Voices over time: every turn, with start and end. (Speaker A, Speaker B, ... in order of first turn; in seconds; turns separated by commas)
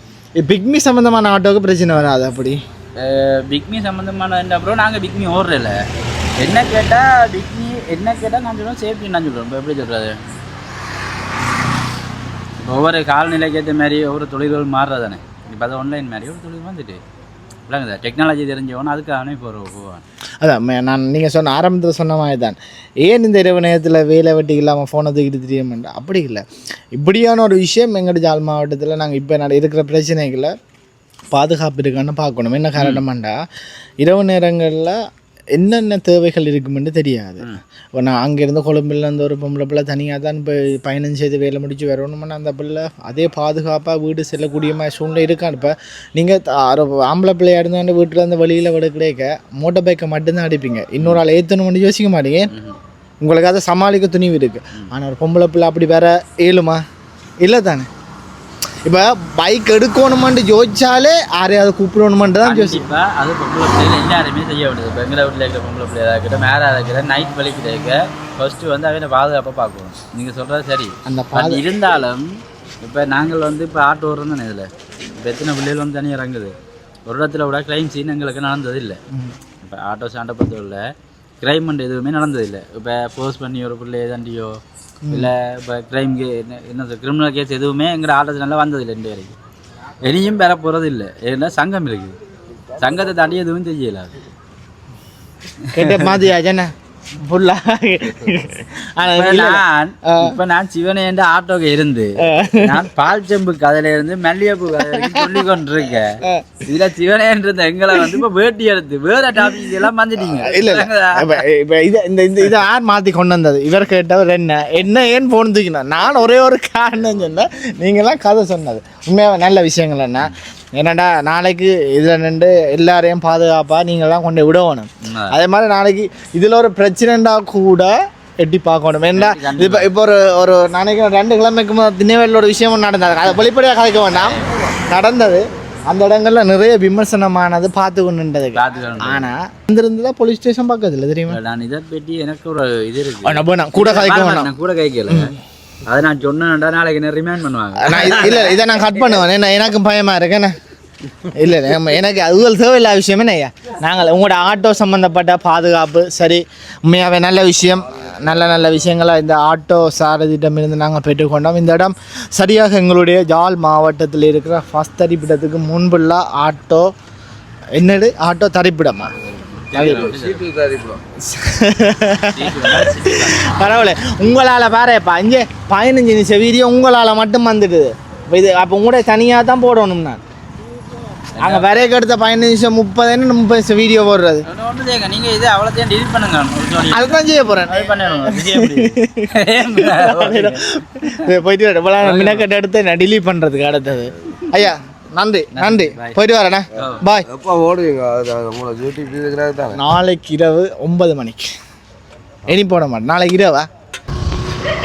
Speaker A: 0.4-2.6, Speaker B: 3.0-5.8, Speaker B: 6.4-10.2, Speaker B: 12.6-17.0, Speaker B: 17.7-20.1, Speaker A: 20.4-30.5, Speaker A: 31.3-33.4, Speaker B: 32.8-33.0, Speaker A: 34.0-35.0, Speaker A: 35.5-52.5, Speaker B: 52.5-52.8, Speaker A: 53.2-56.8, Speaker A: 57.4-57.9, Speaker A: 58.9-62.8, Speaker B: 62.4-72.3, Speaker A: 71.1-71.6, Speaker B: 72.8-76.5, Speaker B: 77.1-79.0, Speaker A: 79.1-79.4, Speaker B: 79.6-80.8, Speaker B: 81.4-84.6, Speaker A: 85.0-85.3, Speaker B: 85.1-89.3, Speaker B: 90.0-92.2, Speaker B: 92.8-94.1, Speaker B: 95.7-96.2, Speaker A: 95.7-100.4, Speaker B: 99.1-111.4, Speaker A: 102.2-102.8, Speaker A: 104.8-105.3, Speaker A: 106.2-106.5, Speaker A: 110.2-141.4, Speaker B: 125.0-125.4, Speaker B: 129.1-129.9, Speaker B: 134.1-134.5, Speaker B: 138.6-139.3, Speaker B: 141.3-145.3, Speaker A: 143.2-144.5, Speaker B: 145.9-148.6, Speaker A: 147.8-150.6, Speaker A: 151.2-166.9, Speaker A: 167.8-169.1, Speaker B: 169.2-170.4, Speaker A: 169.7-170.1, Speaker C: 169.7-171.0, Speaker A: 171.2-180.2, Speaker B: 172.3-173.9, Speaker B: 181.4-181.7, Speaker A: 181.4-184.5, Speaker B: 184.5-191.1, Speaker A: 186.9-197.3, Speaker B: 192.0-192.4, Speaker B: 195.6-196.2, Speaker B: 196.8-197.0, Speaker C: 196.8-199.8, Speaker A: 199.7-201.5, Speaker A: 202.5-203.7